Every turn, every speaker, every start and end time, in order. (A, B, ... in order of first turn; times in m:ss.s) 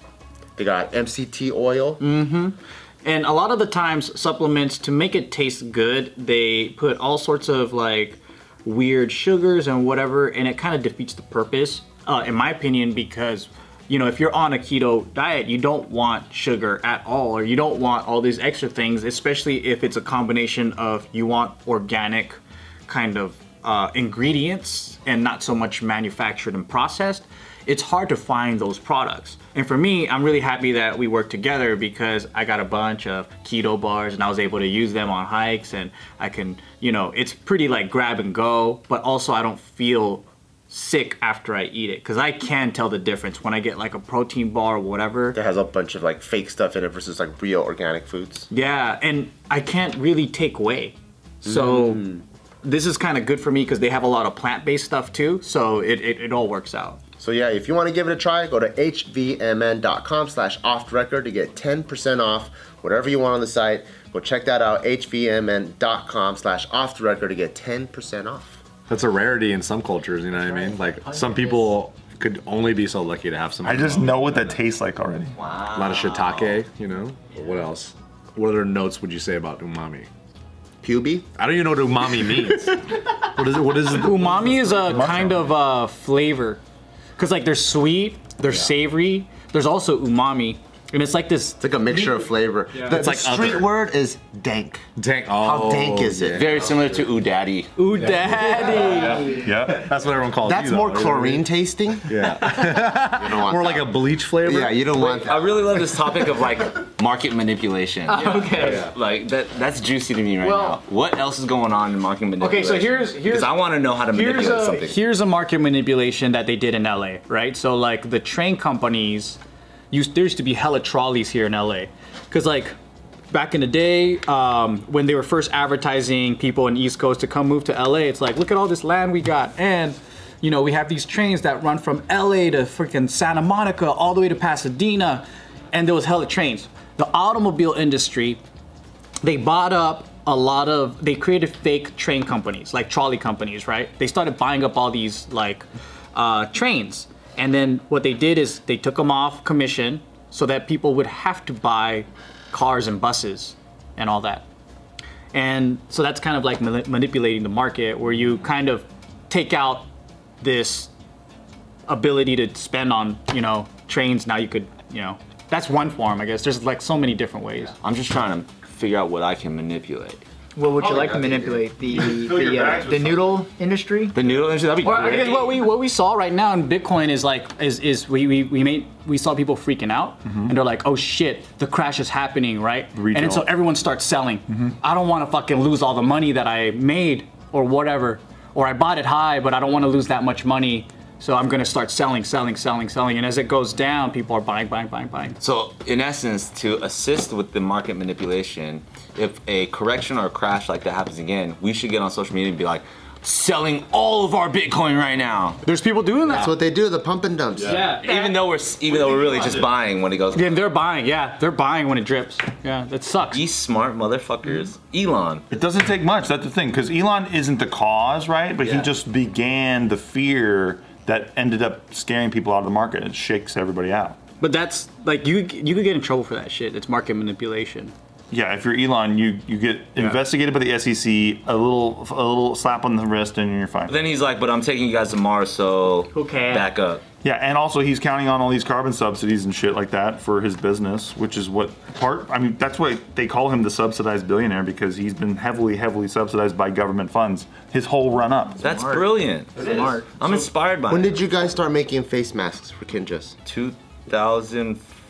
0:00.6-0:02.0 A
0:02.0-0:45.4 B
0:45.3-0:48.5 A
0:48.5-0:57.0 B
0:51.4-0:52.2 A
0:57.2-1:08.6 A
1:08.9-1:14.6 C
1:10.4-1:11.7 D
1:13.6-1:15.3 E
1:15.4-1:16.6 F
1:15.7-1:20.1 C
1:20.8-1:21.3 A
1:21.4-1:25.2 C
1:23.9-1:26.6 B
1:24.9-1:25.4 E
1:27.2-1:31.7 B
1:31.6-1:36.6 A
1:32.8-1:33.7 C
1:35.0-1:36.7 C
1:36.3-1:37.7 F
1:37.8-1:39.4 B
1:38.0-1:41.4 C
1:38.7-1:39.3 D
1:39.4-1:39.9 E
1:40.4-1:45.8 A
1:42.1-1:44.9 C
1:45.0-1:55.0 F
1:48.1-1:48.9 D
1:48.6-1:48.9 C
1:52.4-1:59.4 B
1:59.9-2:02.8 B
2:03.3-2:18.4 B
2:19.2-2:34.4 B
2:35.3-2:39.9 B
2:40.4-2:40.9 B
2:41.9-2:47.7 B
2:47.8-2:50.2 F
2:50.6-2:54.2 D
2:50.8-2:51.6 A
2:51.9-2:53.4 E
2:54.1-2:55.6 F
2:54.8-3:15.4 B
3:00.3-3:00.5 E
3:03.0-3:03.5 E
3:15.4-3:25.6 F
3:25.6-3:26.5 B
3:26.3-3:27.9 A
3:27.6-3:28.3 B
3:27.8-3:28.4 D
3:28.0-3:30.6 F
3:30.3-3:33.4 B
3:33.3-3:35.5 F
3:35.5-3:44.2 E
3:38.6-3:38.9 F
3:44.4-3:47.9 B
3:48.3-3:54.0 E
3:53.9-3:57.0 F
3:56.2-3:56.6 D
3:56.2-3:56.7 B
3:57.2-4:08.6 E
4:08.6-4:10.2 D
4:08.6-4:11.2 F
4:10.9-4:13.4 A
4:13.5-4:14.8 F